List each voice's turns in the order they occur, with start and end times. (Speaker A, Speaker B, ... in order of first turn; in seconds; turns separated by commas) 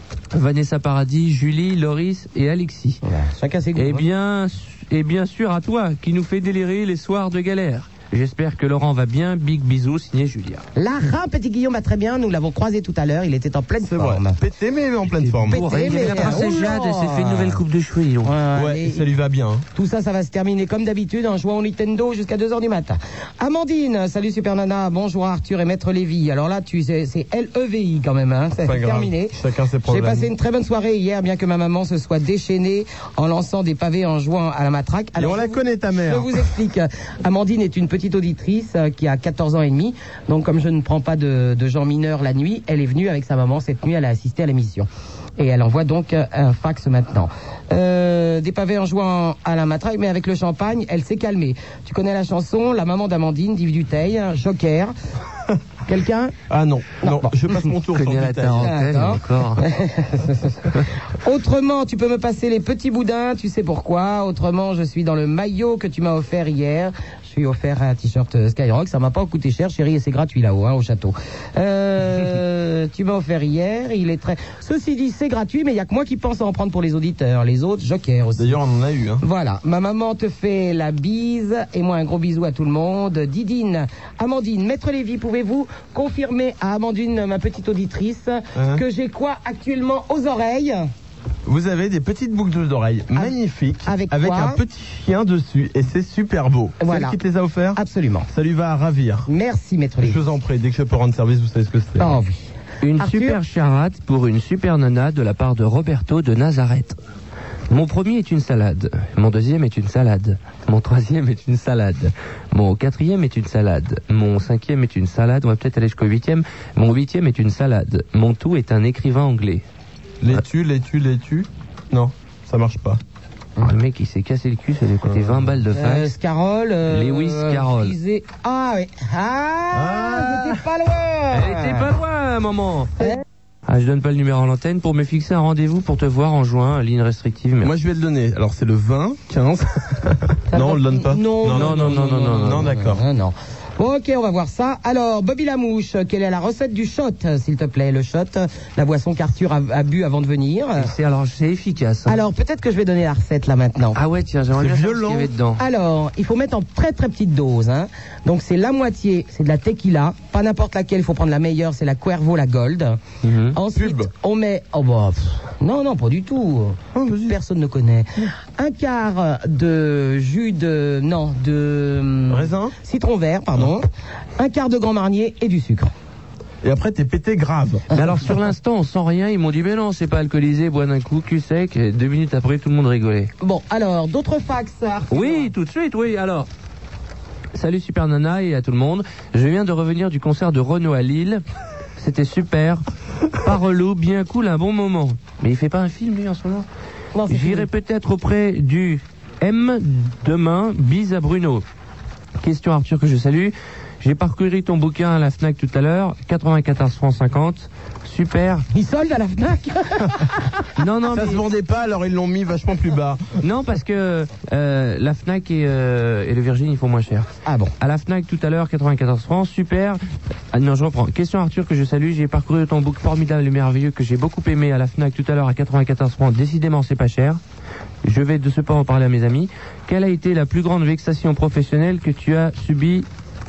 Speaker A: 0.3-3.0, Speaker B: 3.0-4.0, Speaker A: 3.7-10.6, Speaker B: 10.8-14.4, Speaker C: 13.8-16.4, Speaker A: 15.2-18.3, Speaker B: 15.5-17.6, Speaker B: 18.2-19.1, Speaker C: 18.5-19.6, Speaker B: 19.7-29.3, Speaker C: 28.6-30.3, Speaker B: 29.9-54.9, Speaker C: 35.2-36.5, Speaker B: 55.9-56.3, Speaker C: 56.5-58.8, Speaker B: 57.0-57.7, Speaker A: 57.9-59.6, Speaker B: 58.6-78.6, Speaker C: 78.3-79.2, Speaker B: 79.2-90.9, Speaker C: 88.5-88.8, Speaker C: 91.5-99.3, Speaker B: 93.8-94.6, Speaker B: 96.8-97.2, Speaker B: 97.8-98.3, Speaker B: 99.3-100.2, Speaker C: 100.0-102.2, Speaker B: 102.0-102.5, Speaker A: 102.8-107.0, Speaker B: 103.0-103.4, Speaker A: 107.7-119.6, Speaker C: 120.2-123.0, Speaker A: 123.6-126.1, Speaker C: 125.0-125.5, Speaker B: 125.7-131.9, Speaker A: 126.9-127.9, Speaker C: 129.7-130.6, Speaker A: 131.3-137.7, Speaker C: 137.6-143.0, Speaker B: 140.5-150.9, Speaker A: 141.5-142.7, Speaker A: 150.8-152.2, Speaker B: 152.1-154.0, Speaker A: 153.9-155.6, Speaker C: 154.6-155.3, Speaker B: 155.6-163.0, Speaker A: 163.2-163.6, Speaker B: 163.5-173.8, Speaker C: 163.7-164.1, Speaker C: 166.9-167.4, Speaker C: 172.3-172.7, Speaker B: 174.4-175.9, Speaker C: 176.6-177.9, Speaker A: 177.9-183.3, Speaker B: 183.4-185.5, Speaker A: 185.1-186.5, Speaker A: 187.5-191.4, Speaker A: 192.0-192.8, Speaker A: 193.3-196.7, Speaker B: 197.1-197.7, Speaker A: 197.3-201.6, Speaker A: 202.4-208.7, Speaker B: 208.7-210.7, Speaker A: 210.8-211.4, Speaker C: 211.1-213.3, Speaker A: 213.4-217.3, Speaker B: 217.4-217.7, Speaker A: 217.8-220.0, Speaker A: 220.5-227.4, Speaker A: 228.0-233.1